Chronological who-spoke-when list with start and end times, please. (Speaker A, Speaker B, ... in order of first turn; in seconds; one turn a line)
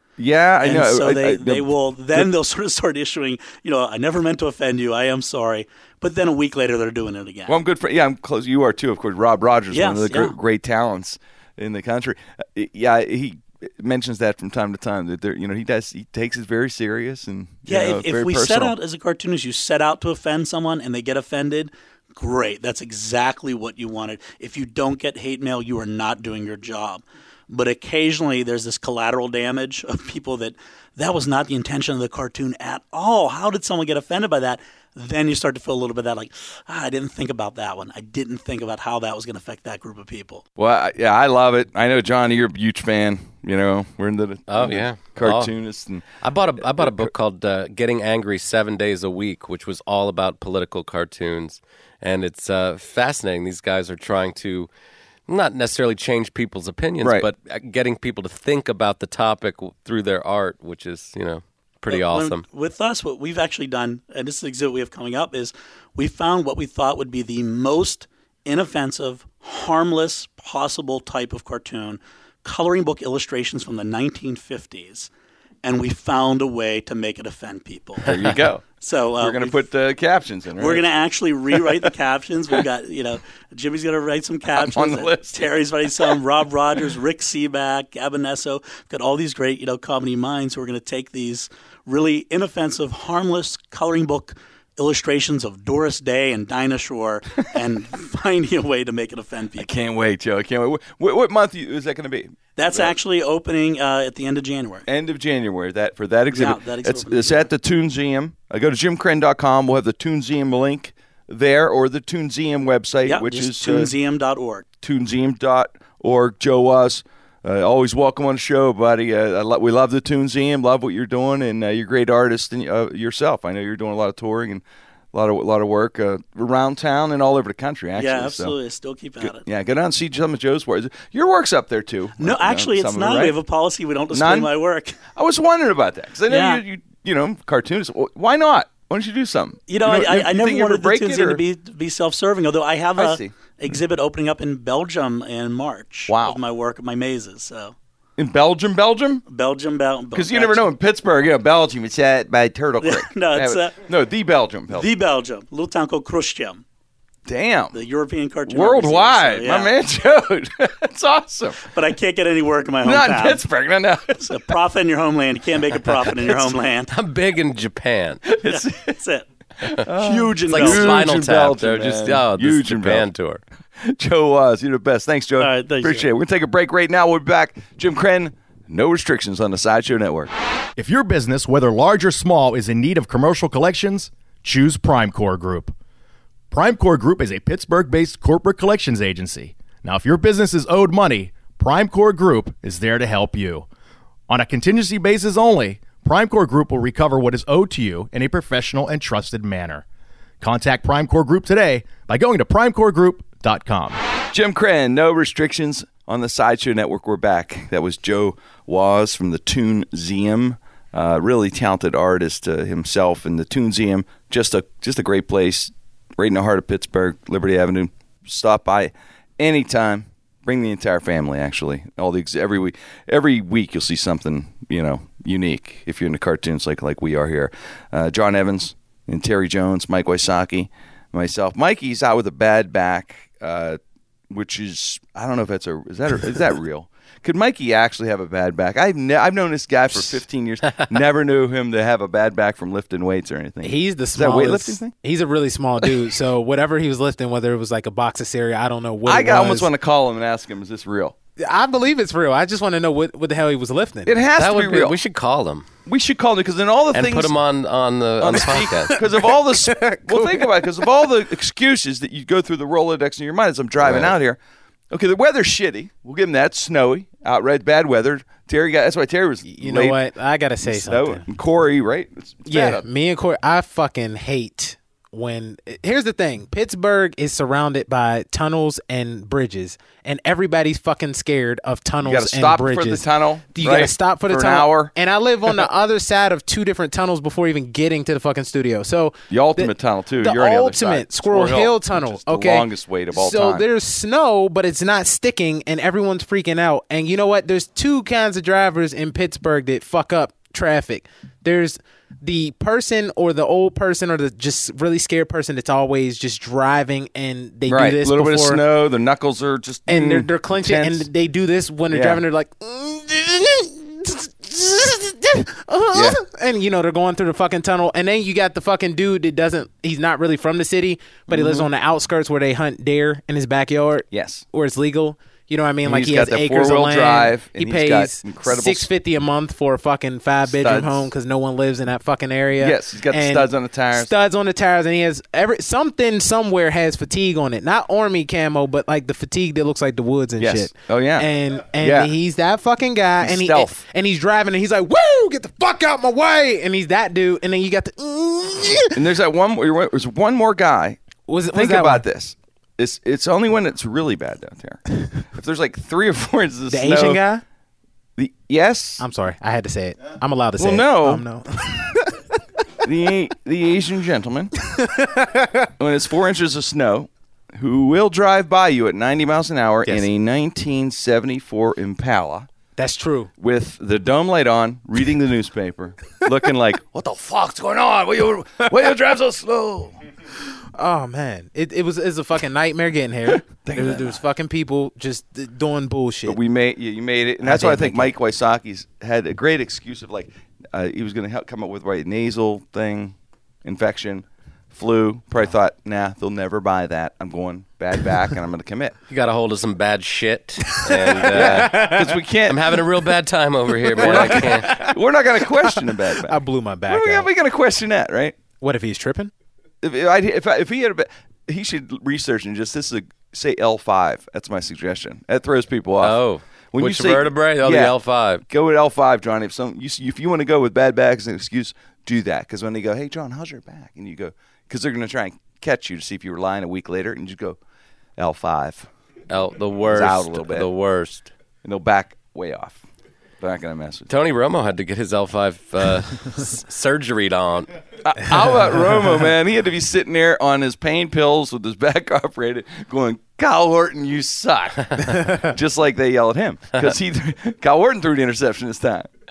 Speaker A: 0.2-2.3
Speaker B: 0.6-7.6
Speaker A: 7.5-18.8
Speaker B: 9.7-10.3
Speaker B: 17.7-40.4
Speaker A: 40.6-46.0
Speaker C: 44.5-45.5
Speaker C: 46.2-54.7
Speaker A: 46.6-47.1
Speaker C: 55.3-62.4
Speaker B: 61.9-75.1
Speaker B: 75.6-79.6
Speaker A: 78.0-78.6
Speaker A: 79.2-80.8
Speaker B: 80.6-99.7
Speaker A: 81.5-81.9
Speaker A: 84.5-86.1
Speaker A: 99.6-102.9
Speaker B: 102.6-104.8
Speaker A: 104.9-113.9
Speaker B: 106.3-107.5
Speaker B: 113.0-114.7
Speaker A: 114.8-128.5
Speaker B: 127.9-129.4
Speaker A: 129.2-133.4
Speaker B: 132.2-135.1
Speaker A: 134.1-134.5
Speaker A: 135.1-141.4
Speaker B: 136.3-136.6
Speaker B: 139.7-147.7
Speaker A: 142.9-143.3
Speaker A: 146.1-146.4
Speaker A: 148.2-149.2
Speaker B: 149.3-150.7
Speaker A: 150.1-154.9
Speaker B: 152.8-153.8
Speaker B: 154.7-156.6
Speaker A: 157.2-157.8
Speaker B: 157.7-159.7
Speaker A: 158.5-161.7
Speaker B: 161.7-163.4
Speaker A: 162.8-164.5
Speaker B: 164.2-166.9
Speaker C: 166.9-168.2
Speaker A: 168.3-168.9
Speaker B: 168.4-171.0
Speaker A: 169.7-173.1
Speaker C: 170.5-173.4
Speaker A: 173.8-180.3
Speaker B: 175.4-176.1
Speaker D: 180.8-185.7
Speaker D: 186.5-193.7
Speaker D: 194.3-199.8
Speaker D: 200.4-204.0
Speaker A: 204.3-233.8
Speaker A: 234.3-244.9
Speaker E: 243.6-249.7
Speaker A: 249.0-251.1
Speaker E: 251.4-254.2
Speaker A: 254.1-254.9
Speaker C: 254.4-255.7
Speaker A: 255.8-257.3
Speaker C: 256.9-259.0
Speaker A: 258.2-264.4
Speaker E: 258.8-260.8
Speaker C: 263.8-264.1
Speaker A: 264.9-270.0
Speaker E: 269.4-271.2
Speaker A: 270.6-272.8
Speaker E: 272.5-308.6
Speaker A: 282.0-284.9
Speaker A: 289.3-293.6
Speaker A: 307.7-311.1
Speaker E: 309.9-349.0
Speaker A: 311.9-312.2
Speaker A: 315.9-316.2
Speaker A: 321.3-321.7
Speaker A: 324.1-324.4
Speaker A: 325.8-328.9
Speaker A: 330.4-331.1
Speaker A: 332.6-334.1
Speaker A: 340.4-341.3
Speaker A: 341.8-342.1
Speaker A: 343.2-343.8
Speaker A: 348.9-351.0
Speaker E: 351.3-352.0
Speaker A: 351.5-357.2
Speaker E: 356.7-357.4
Speaker A: 358.2-359.0
Speaker E: 359.0-362.2
Speaker A: 360.6-361.2
Speaker A: 362.8-364.5
Speaker E: 364.6-365.7
Speaker A: 365.8-372.5
Speaker E: 372.8-373.3
Speaker A: 373.4-380.0
Speaker E: 380.7-386.4
Speaker A: 383.3-384.2
Speaker A: 386.2-398.9
Speaker E: 387.4-388.1
Speaker C: 399.1-404.8
Speaker E: 400.9-402.1
Speaker A: 401.3-402.8
Speaker A: 403.9-408.4
Speaker E: 404.0-404.9
Speaker E: 405.6-407.3
Speaker E: 408.6-409.3
Speaker A: 409.8-416.2
Speaker C: 416.0-418.4
Speaker A: 416.7-417.9
Speaker A: 418.5-427.6
Speaker A: 428.2-428.9
Speaker C: 429.3-431.3
Speaker A: 429.9-430.7
Speaker A: 431.6-432.8
Speaker A: 433.4-434.1
Speaker C: 434.1-437.7
Speaker A: 438.0-449.1
Speaker E: 445.1-445.5